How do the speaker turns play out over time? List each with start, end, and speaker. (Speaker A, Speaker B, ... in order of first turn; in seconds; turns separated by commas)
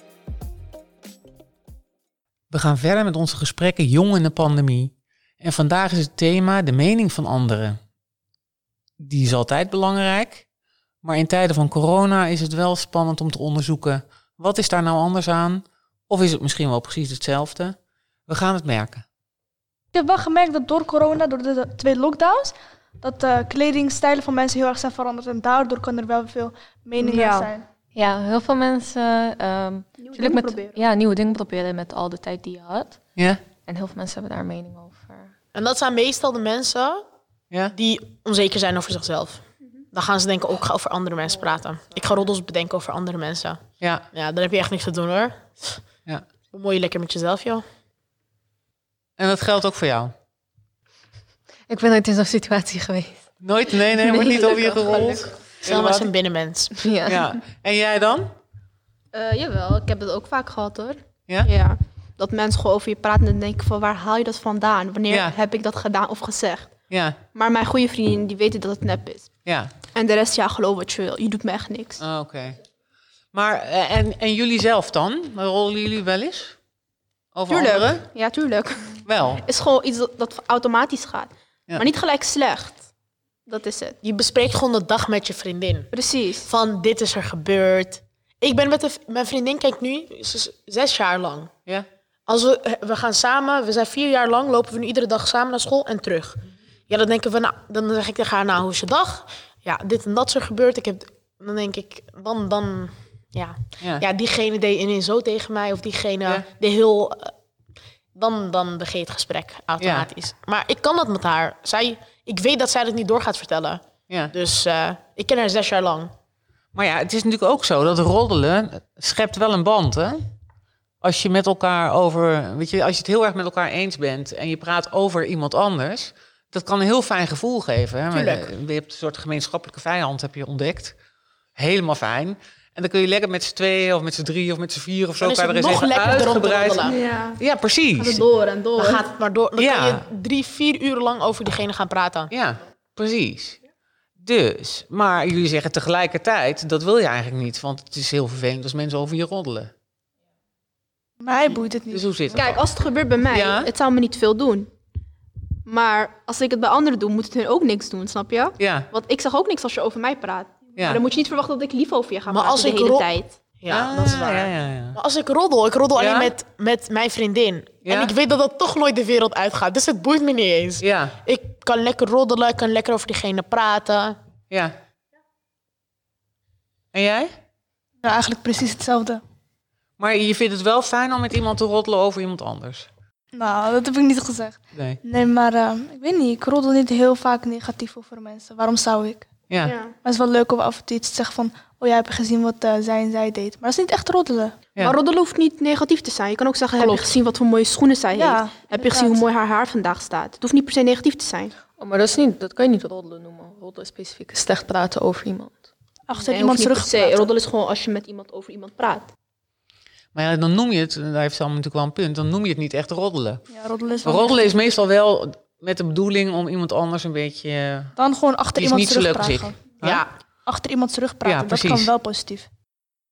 Speaker A: 2.5-7.8, Speaker A: 9.0-10.4, Speaker A: 11.0-19.0, Speaker B: 19.9-27.6, Speaker C: 27.0-27.5, Speaker D: 27.9-33.0, Speaker C: 30.0-30.8, Speaker D: 33.6-35.3, Speaker E: 35.5-37.0, Speaker E: 37.7-45.8, Speaker E: 46.5-47.6, Speaker A: 49.2-50.1, Speaker D: 51.7-55.2, Speaker A: 53.4-56.1, Speaker E: 55.6-56.8, Speaker D: 56.8-57.3, Speaker A: 57.0-58.3, Speaker C: 59.1-66.7, Speaker A: 65.1-65.3, Speaker A: 66.9-67.2, Speaker C: 67.3-69.3, Speaker A: 69.5-69.7, Speaker C: 69.9-72.0, Speaker A: 72.0-72.6, Speaker A: 73.3-76.6, Speaker A: 77.3-78.1, Speaker C: 77.5-82.8, Speaker A: 79.0-79.4, Speaker C: 83.5-84.0, Speaker E: 84.0-85.9, Speaker C: 85.9-86.5, Speaker E: 86.4-91.5, Speaker E: 92.3-107.3, Speaker E: 108.1-116.1, Speaker A: 109.8-110.1, Speaker A: 114.1-114.3, Speaker A: 116.7-120.3, Speaker A: 121.0-130.9, Speaker E: 128.1-128.5, Speaker A: 131.6-138.2, Speaker E: 135.2-137.0, Speaker C: 136.8-137.4, Speaker C: 138.0-139.1, Speaker E: 138.8-142.3, Speaker A: 139.6-140.1, Speaker A: 142.3-143.6, Speaker A: 144.2-149.7, Speaker B: 151.2-152.1, Speaker A: 151.6-152.6, Speaker C: 152.3-154.7, Speaker A: 153.2-153.7, Speaker C: 155.7-163.4, Speaker A: 158.6-158.9, Speaker A: 160.8-161.0, Speaker E: 162.3-163.1, Speaker E: 163.6-174.2, Speaker A: 163.7-165.0, Speaker A: 165.9-166.3, Speaker A: 167.8-168.1, Speaker A: 170.8-171.2, Speaker A: 176.9-177.3, Speaker B: 178.0-179.2, Speaker A: 180.0-182.9, Speaker B: 183.3-189.3, Speaker A: 184.7-185.0, Speaker A: 189.5-189.8, Speaker C: 189.6-189.9, Speaker B: 190.0-194.6, Speaker C: 194.8-201.5, Speaker B: 198.1-199.2, Speaker D: 201.8-205.7, Speaker B: 206.1-207.3, Speaker C: 206.3-209.1, Speaker A: 210.1-213.4, Speaker B: 213.5-214.4, Speaker A: 214.0-217.9, Speaker B: 218.0-219.7, Speaker A: 218.6-220.0, Speaker E: 219.8-220.1, Speaker B: 220.4-222.5, Speaker A: 221.2-221.9